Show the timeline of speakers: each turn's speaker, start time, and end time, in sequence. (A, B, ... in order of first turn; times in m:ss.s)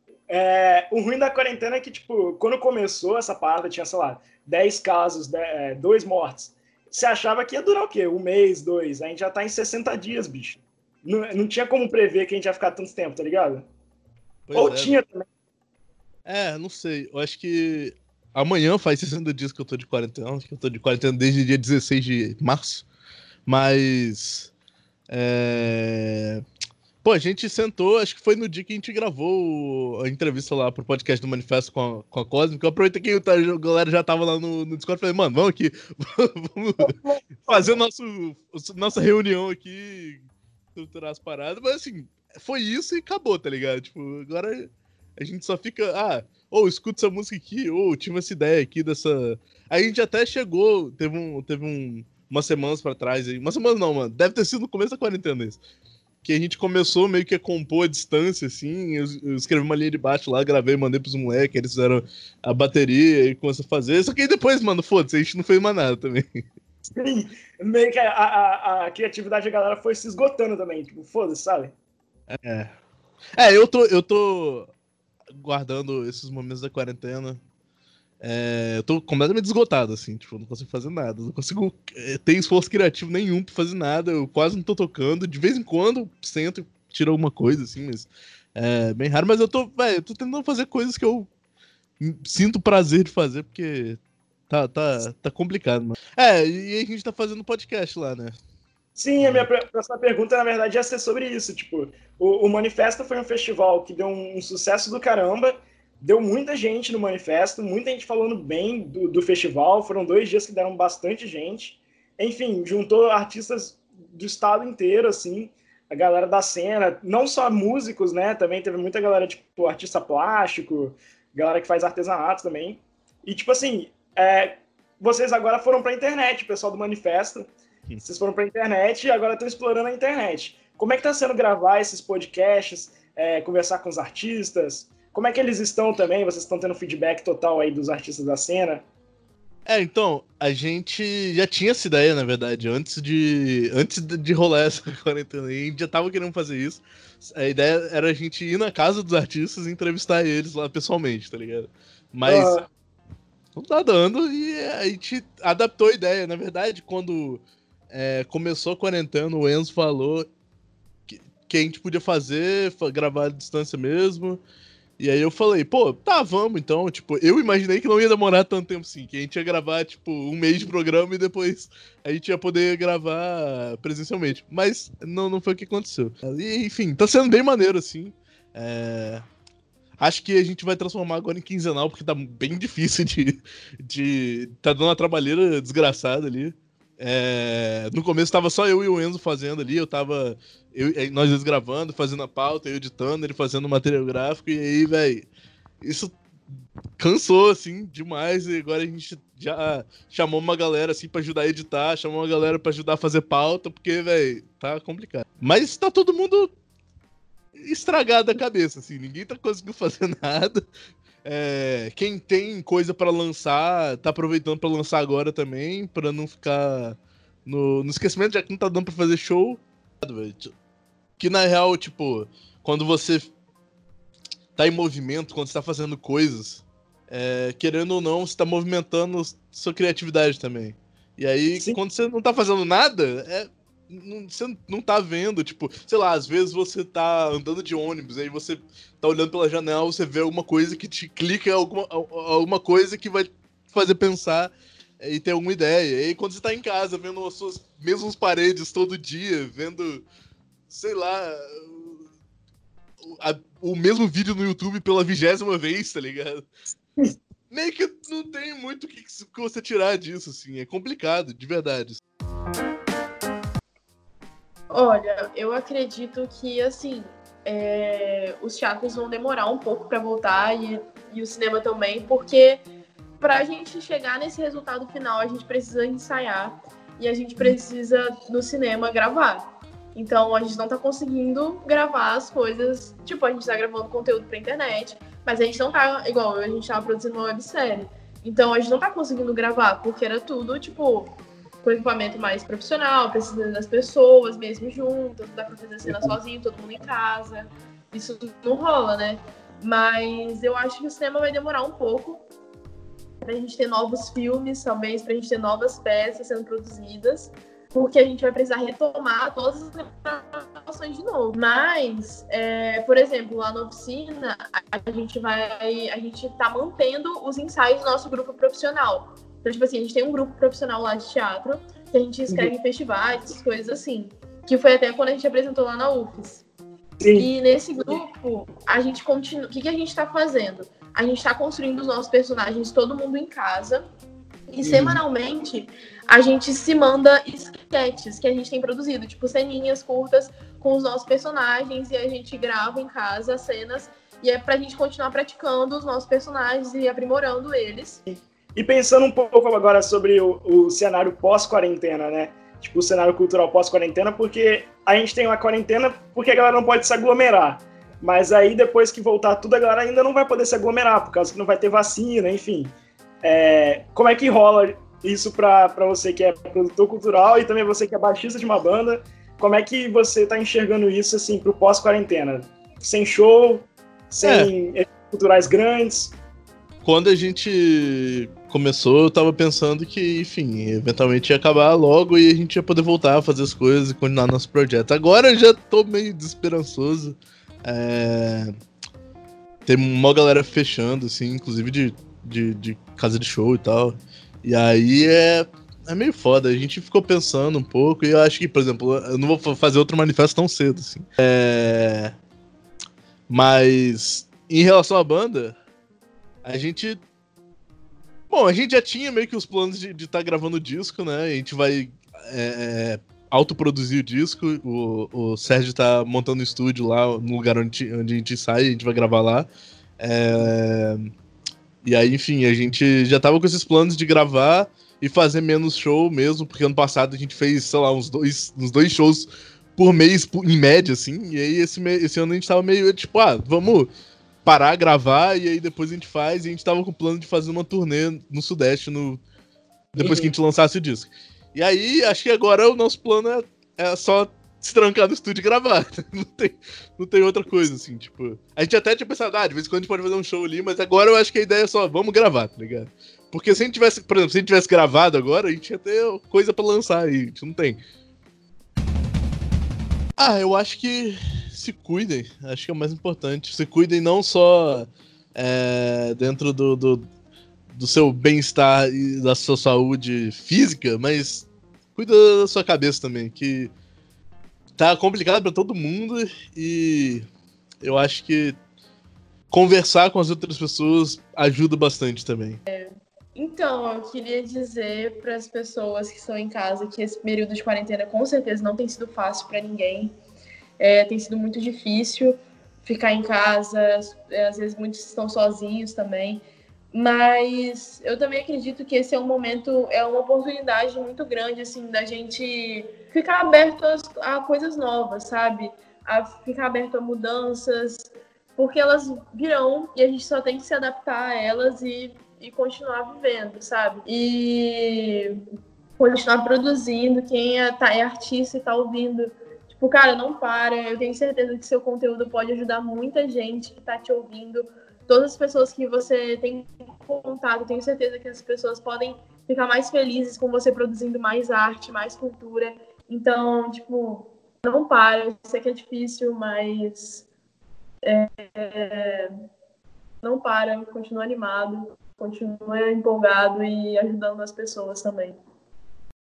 0:00.3-0:13.7 A
0:14.5-0:15.0 B
0:14.5-0:15.3 A
0:16.2-0:22.9 B
0:23.4-0:24.5 B
0:25.1-0:26.4 B
0:27.0-0:55.6 B
0:36.8-0:37.8 A
0:56.2-1:06.4 B
1:06.8-1:11.7 A
1:12.3-1:12.7 B
1:13.4-1:14.7 B
1:15.4-1:17.4 B
1:18.2-1:31.3 B
1:32.0-1:38.3 B
1:39.0-2:07.5 A
1:39.2-1:39.5 B
2:08.0-2:18.8 A
2:19.6-2:32.7 B
2:32.2-2:32.6 A
2:33.6-2:40.3 B
2:41.1-2:44.4 B
2:45.0-2:59.2 B
3:00.0-3:15.3 B
3:15.8-3:16.2 B
3:17.0-3:26.5 B
3:27.6-3:30.7 B
3:31.2-3:40.5 B
3:41.2-3:43.3 B
3:44.6-4:10.0 B
4:10.7-4:12.0 B
4:13.0-4:16.5 B
4:17.5-4:22.0 B
4:24.7-4:32.6 C
4:33.2-5:02.2 C
5:03.2-5:26.4 C
5:27.0-5:27.3 A
5:27.1-5:33.8 C
5:34.5-5:48.0 C
5:34.6-5:35.0 A
5:48.1-6:02.7 A
6:03.2-6:16.2 A
6:14.2-6:14.5 B
6:16.8-6:28.5 B
6:29.6-6:42.1 B
6:43.3-6:45.5 B
6:46.4-6:47.0 B
6:48.3-7:01.1 B
7:01.8-7:13.9 B
7:14.4-7:19.2 B
7:19.9-7:37.8 B
7:20.0-7:20.3 A
7:40.2-7:47.0 B
7:47.7-7:53.7 B
7:54.8-7:57.2 B
7:57.8-7:58.6 B
7:59.5-8:02.6 B
8:02.7-8:10.1 C
8:10.8-8:35.4 C
8:36.0-8:57.3 C
8:58.0-8:59.3 C
9:00.2-9:05.4 C